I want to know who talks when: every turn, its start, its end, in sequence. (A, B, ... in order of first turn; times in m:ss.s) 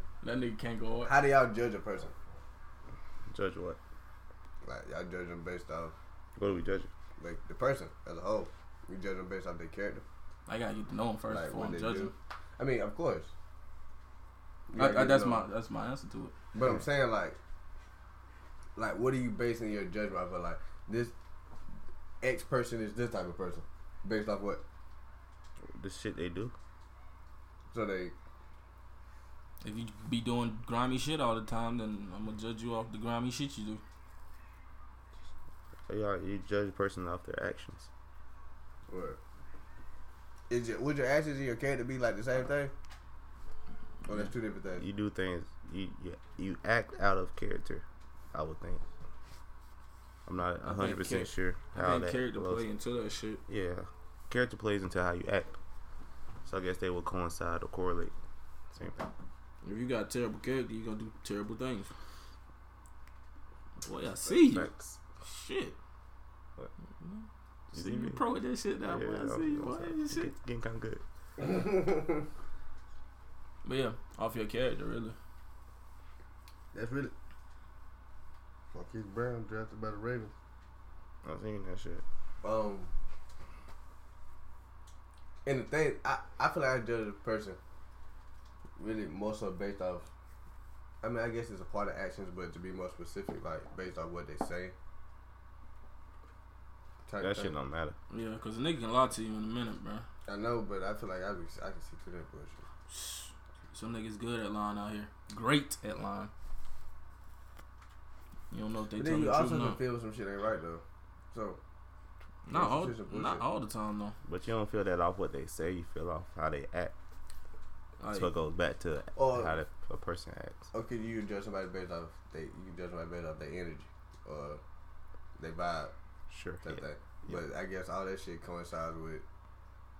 0:00.2-0:01.1 A
0:01.0-0:02.1 B
0:03.3-0:03.8 C
0:04.6-0:05.9 B
0:06.4-0:06.9 C
0:07.2-0:10.0 B
0:10.5-0:12.1 A
0:11.3-0:13.3 B
0:14.7-0:15.4 B
0:14.8-0:16.3 A
0:16.5-0:17.4 B
0:18.8-0:21.1 B
0:22.2-0:24.6 B
0:25.7-0:26.5 C
0:27.7-0:28.1 B
0:29.6-0:33.8 A
0:35.9-0:37.9 C
0:38.9-0:39.2 B
0:40.5-0:42.7 B
0:44.1-0:44.8 B
0:44.8-0:48.8 C
0:50.2-0:52.6 C
0:50.6-0:53.4 A
0:53.5-0:55.5 C
0:56.4-0:58.1 C
0:58.8-0:59.0 C
0:59.6-1:01.9 A
1:03.8-1:04.7 A
1:04.4-1:05.0 C
1:05.2-1:05.8 A
1:07.0-1:10.3 A
1:07.7-1:08.2 C
1:08.8-1:11.0 C
1:11.4-1:12.2 B
1:13.6-1:15.2 A
1:16.7-1:17.1 B
1:18.7-1:20.3 B
1:21.2-1:22.0 C
1:22.4-1:22.9 B
1:25.4-1:27.6 B
1:28.8-1:30.1 B
1:31.0-1:34.7 B
1:37.1-1:37.5 B
1:37.2-1:38.0 C
1:38.1-1:40.0 A
1:40.3-1:42.6 B
1:42.9-1:46.3 A
1:48.5-1:49.8 A
1:49.0-1:51.6 B
1:52.5-1:54.2 A
1:52.5-1:53.4 B
1:54.2-1:56.9 C
1:58.0-1:58.3 A
1:58.1-2:00.6 C
1:59.2-1:59.5 B
2:00.7-2:04.6 B
2:05.4-2:05.9 B
2:06.3-2:07.4 C
2:06.6-2:09.2 B